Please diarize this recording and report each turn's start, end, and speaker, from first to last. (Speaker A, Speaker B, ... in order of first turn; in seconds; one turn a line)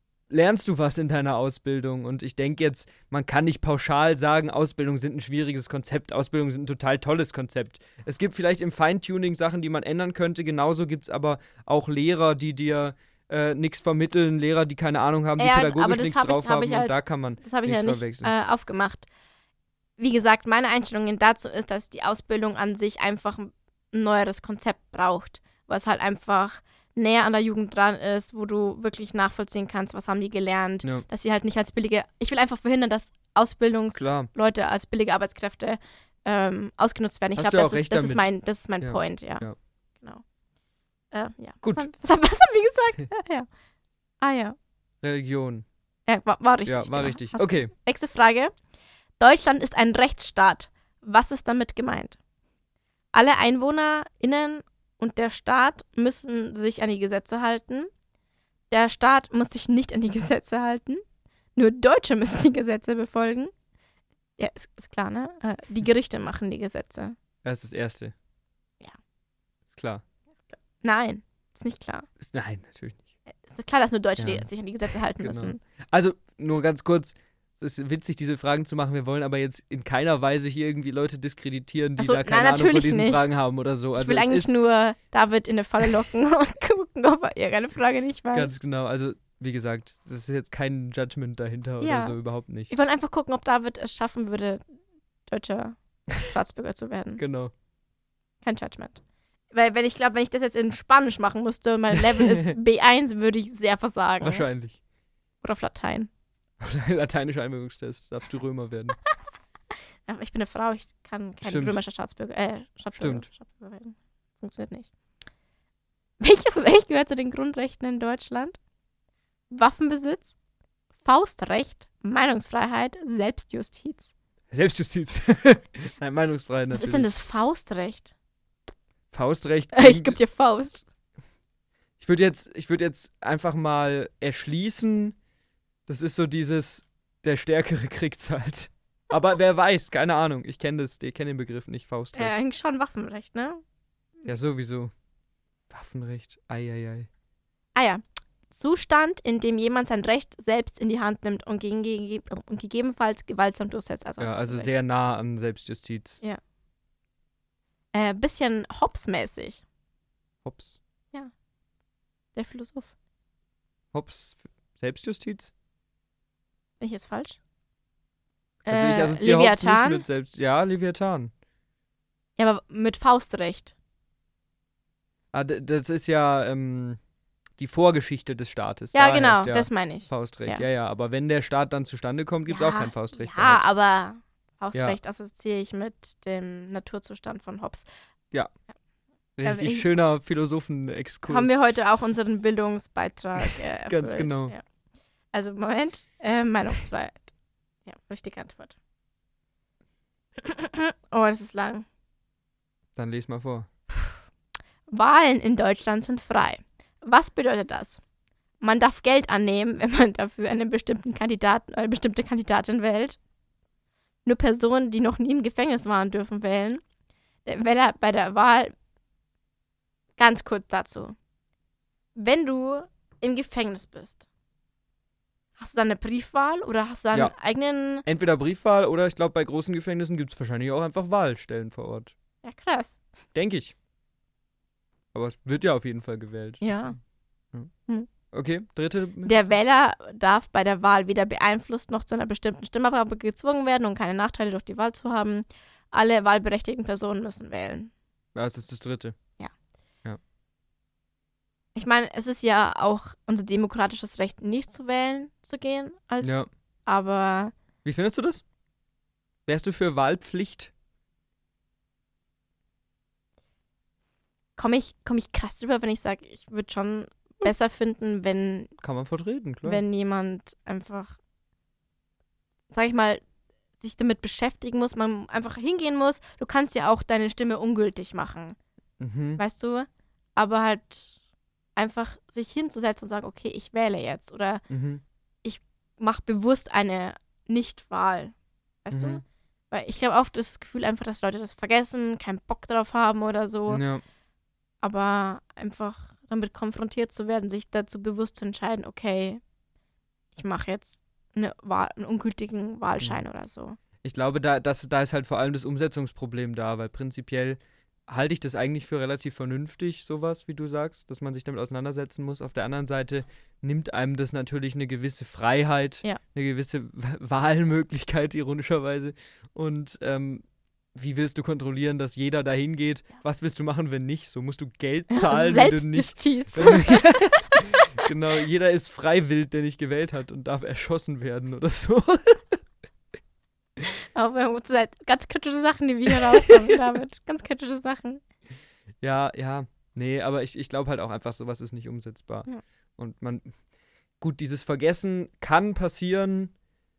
Speaker A: 0.3-18.3
Speaker B: 15.4-19.1
Speaker B: 20.0-39.5
Speaker A: 33.9-34.3
Speaker A: 37.4-38.3
Speaker A: 38.8-39.5
Speaker B: 41.1-43.5
Speaker B: 44.2-44.5
Speaker A: 45.0-45.6
Speaker B: 46.1-48.5
Speaker A: 46.6-47.7
Speaker B: 49.2-52.2
Speaker B: 53.1-57.9
Speaker B: 58.7-61.0
Speaker B: 61.5-63.5
Speaker B: 64.4-67.1
Speaker A: 67.4-68.1
Speaker A: 69.7-70.0
Speaker B: 70.5-72.1
Speaker A: 72.2-73.0
Speaker B: 73.4-75.6
Speaker A: 74.2-74.5
Speaker A: 75.2-84.5
Speaker B: 82.0-83.3
Speaker B: 84.0-88.6
Speaker A: 88.3-92.7
Speaker B: 91.8-92.2
Speaker B: 92.7-94.6
Speaker B: 95.3-97.2
Speaker A: 97.2-97.5
Speaker B: 98.4-99.0
Speaker B: 99.5-104.5
Speaker A: 102.0-102.5
Speaker A: 104.2-104.8
Speaker B: 105.4-106.1
Speaker A: 106.6-109.0
Speaker B: 110.1-114.9
Speaker A: 111.4-111.8
Speaker A: 112.9-113.2
Speaker B: 116.2-118.6
Speaker B: 119.5-120.3
Speaker B: 121.0-124.1
Speaker A: 124.5-127.1
Speaker B: 126.7-128.1
Speaker A: 129.1-130.2
Speaker B: 129.7-130.8
Speaker A: 132.0-135.2
Speaker A: 135.9-142.4
Speaker B: 142.2-143.6
Speaker A: 144.2-144.9
Speaker A: 145.7-147.1
Speaker B: 147.7-154.7
Speaker A: 154.2-156.2
Speaker B: 157.9-159.6
Speaker A: 160.4-160.8
Speaker B: 162.3-162.9
Speaker A: 163.9-165.5
Speaker B: 166.8-167.4
Speaker B: 168.7-170.0
Speaker A: 168.7-171.3
Speaker B: 172.4-173.7
Speaker A: 175.3-177.0
Speaker A: 177.6-183.7
Speaker B: 178.9-180.6
Speaker B: 182.5-187.8
Speaker A: 189.4-191.6
Speaker B: 189.4-189.8
Speaker B: 191.3-194.6
Speaker A: 193.4-194.5
Speaker B: 195.3-197.3
Speaker B: 197.8-198.8
Speaker B: 200.4-201.8
Speaker A: 202.9-203.7
Speaker B: 204.9-208.0
Speaker B: 208.6-213.2
Speaker B: 214.2-216.8
Speaker B: 217.4-218.7
Speaker B: 220.2-221.1
Speaker B: 222.1-224.2
Speaker B: 225.6-228.0
Speaker A: 228.1-232.1
Speaker B: 232.4-233.0
Speaker A: 233.3-233.7
Speaker A: 235.1-236.9
Speaker B: 236.6-237.0
Speaker A: 238.3-239.3
Speaker B: 239.2-247.9
Speaker A: 248.3-249.2
Speaker B: 251.7-257.5
Speaker A: 256.2-256.5
Speaker A: 257.8-258.4
Speaker A: 259.5-260.7
Speaker B: 264.6-268.7
Speaker A: 268.8-269.8
Speaker B: 269.6-271.2
Speaker B: 272.7-273.2
Speaker B: 273.8-278.6
Speaker A: 279.0-279.4
Speaker B: 279.4-281.2
Speaker B: 281.8-284.6
Speaker A: 284.7-285.0
Speaker B: 285.4-293.8
Speaker A: 288.9-289.2
Speaker A: 293.7-294.0
Speaker B: 294.8-299.4
Speaker B: 300.3-303.8
Speaker A: 304.0-320.4
Speaker A: 320.9-332.6
Speaker B: 325.1-327.6
Speaker B: 334.1-338.2
Speaker A: 336.1-336.7
Speaker A: 339.0-343.5
Speaker A: 344.2-346.5